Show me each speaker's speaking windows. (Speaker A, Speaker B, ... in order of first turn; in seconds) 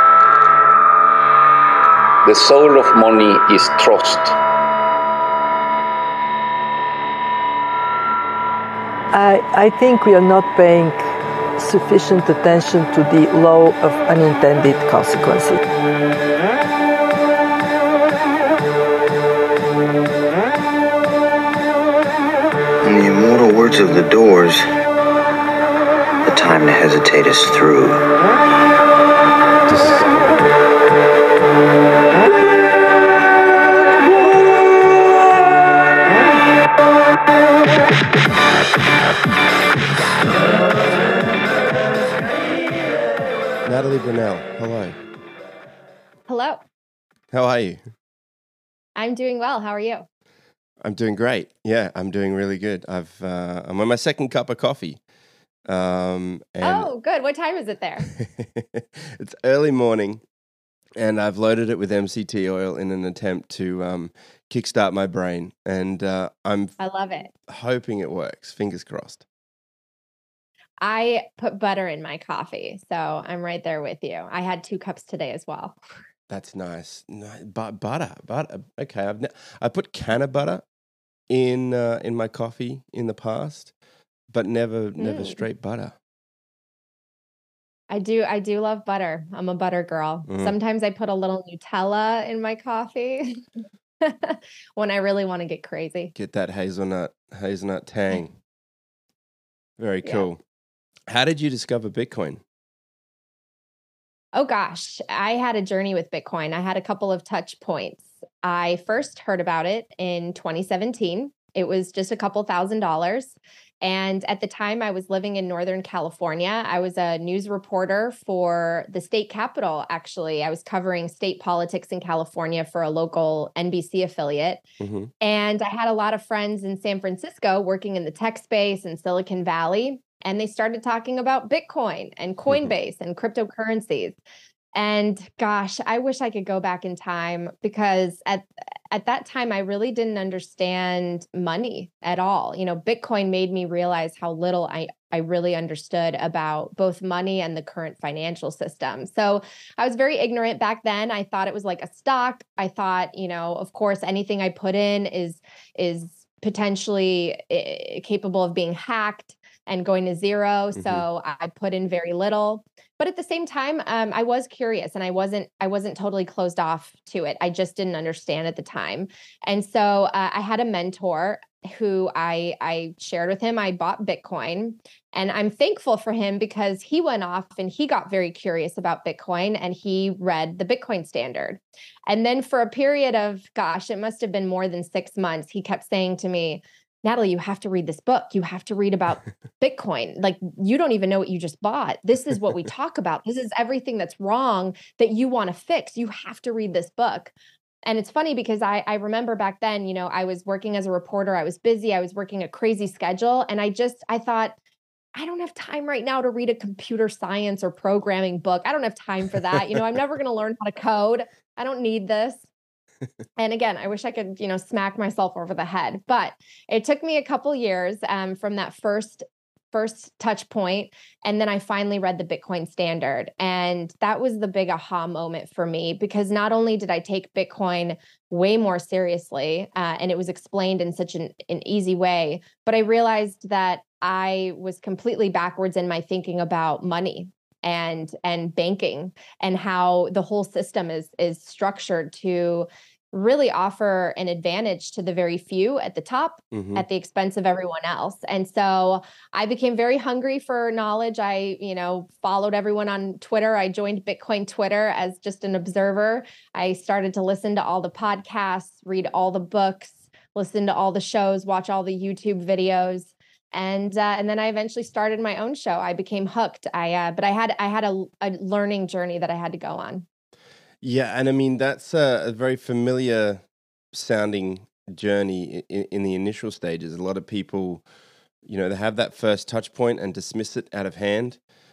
Speaker A: 2.2-4.3
Speaker B: 9.1-15.6
Speaker C: 22.8-24.6, 26.2-28.0
Speaker D: 29.7-30.1, 43.6-45.0, 47.3-47.8, 50.8-55.0, 55.6-56.9, 58.1-60.2, 61.0-66.8, 67.5-69.2, 76.3-80.6, 81.3-83.7, 84.3-86.0, 90.3-90.5, 96.1-98.4, 99.8-100.4, 101.1-102.4, 124.8-125.1, 160.8-161.0, 246.5-246.8, 270.8-277.8, 278.4-281.4
Speaker E: 46.3-46.6, 49.0-50.0, 56.6-58.1, 66.8-67.3, 70.8-75.8, 85.0-85.4, 87.9-93.4, 94.0-96.1, 104.3-124.6, 125.2-134.2, 134.7-197.3, 197.8-204.6, 205.2-212.5, 213.4-270.1